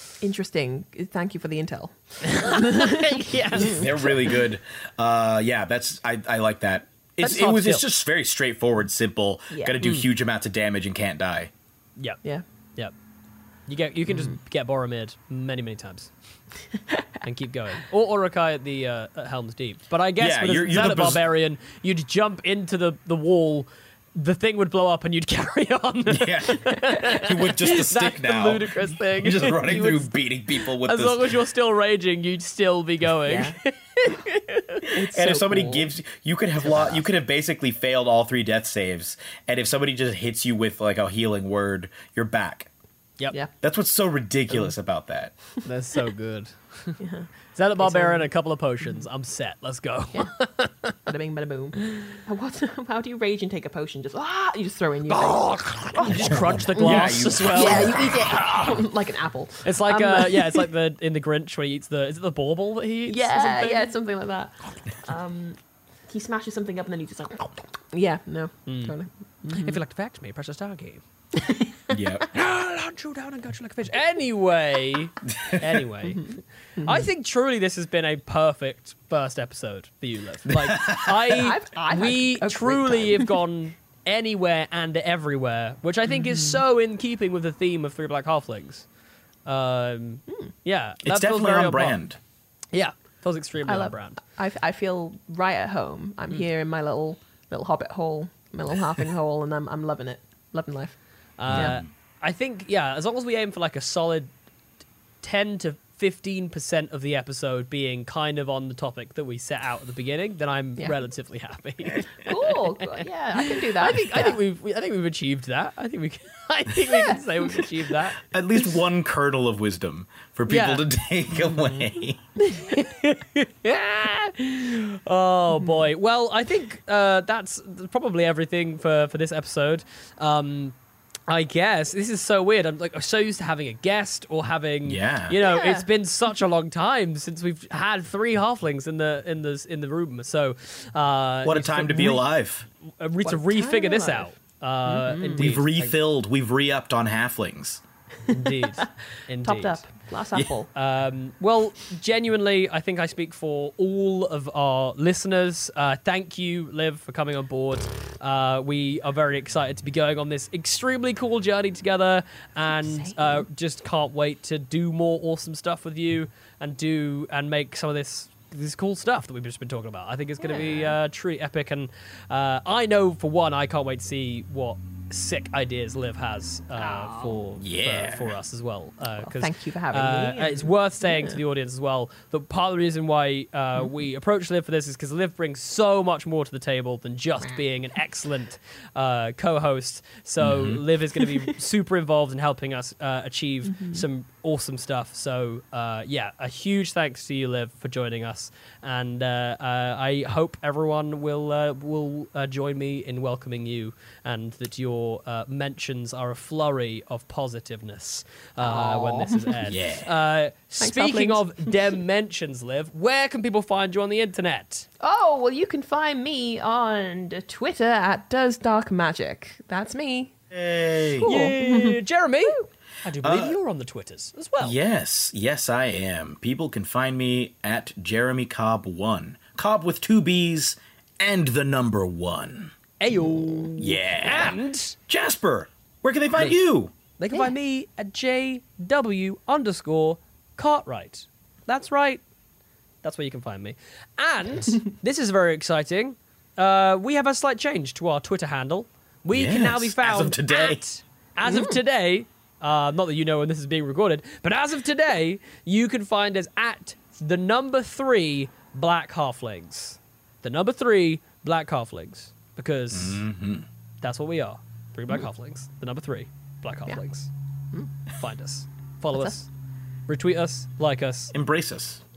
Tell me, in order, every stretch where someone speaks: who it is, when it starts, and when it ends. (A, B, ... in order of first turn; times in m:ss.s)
0:00.2-0:04.2 A
0:02.2-0:03.9 B
0:03.6-0:11.5 C
0:07.2-0:07.9 B
0:09.5-0:09.8 A
0:13.7-0:16.1 B
0:14.1-0:14.4 A
0:17.2-0:34.8 B
0:20.2-0:21.2 C
0:26.1-0:31.3 C
0:33.3-0:33.6 A
0:34.9-0:35.9 A
0:35.0-0:42.7 C
0:36.7-0:36.9 A
0:43.6-0:45.3 C
0:45.6-0:47.0 B
0:47.0-0:48.3 A
0:47.6-0:50.9 B
0:51.0-1:00.7 A
0:55.1-0:58.8 B
0:56.2-0:58.4 C
0:59.6-1:03.9 B
1:03.1-1:05.6 A
1:06.1-1:09.8 A
1:08.7-1:08.9 B
1:09.5-1:11.0 B
1:11.4-1:12.0 A
1:11.9-1:12.3 C
1:12.3-1:28.9 B
1:16.0-1:17.1 A
1:20.5-1:21.3 C
1:21.4-1:23.4 A
1:26.1-1:26.6 A
1:29.4-1:32.0 B
1:31.0-1:32.2 C
1:32.7-1:34.2 B
1:33.6-1:41.8 A
1:41.4-1:44.3 B
1:41.4-1:41.9 C
1:45.2-1:58.2 B
1:52.2-1:54.4 A
1:56.8-1:57.7 A
1:58.3-2:02.2 C
2:00.5-2:00.8 B
2:01.4-2:01.9 A
2:02.5-2:10.8 B
2:05.5-2:05.8 A
2:11.3-2:22.3 B
2:14.8-2:15.4 C
2:15.4-2:15.9 A
2:21.4-2:22.7 C
2:23.0-2:26.0 B
2:23.2-2:24.3 A
2:24.8-2:25.5 A
2:25.4-2:27.8 C
2:28.3-2:28.9 A
2:28.3-2:29.8 B
2:29.4-2:30.7 A
2:30.7-3:34.9 B
2:42.7-2:43.4 A
2:50.4-2:51.0 A
2:56.8-2:57.4 A
2:57.6-2:58.3 C
2:59.2-3:01.4 A
3:10.4-3:10.8 C
3:13.7-3:14.0 A
3:28.6-3:29.6 A
3:29.7-3:30.1 C
3:30.8-3:31.8 A
3:35.0-3:40.4 A
3:40.5-3:41.3 C
3:41.2-3:42.7 A
3:41.2-3:44.8 B
3:43.2-3:43.6 C
3:44.6-3:52.7 C
3:53.0-3:55.0 B
3:53.1-3:53.7 A
3:53.8-3:56.9 C
3:57.2-4:02.2 B
4:03.0-4:23.2 B
4:09.3-4:10.8 C
4:11.4-4:11.8 A
4:22.9-4:23.7 C
4:24.0-4:27.3 B
4:28.1-4:29.5 B
4:30.1-4:31.3 B
4:31.3-4:32.0 C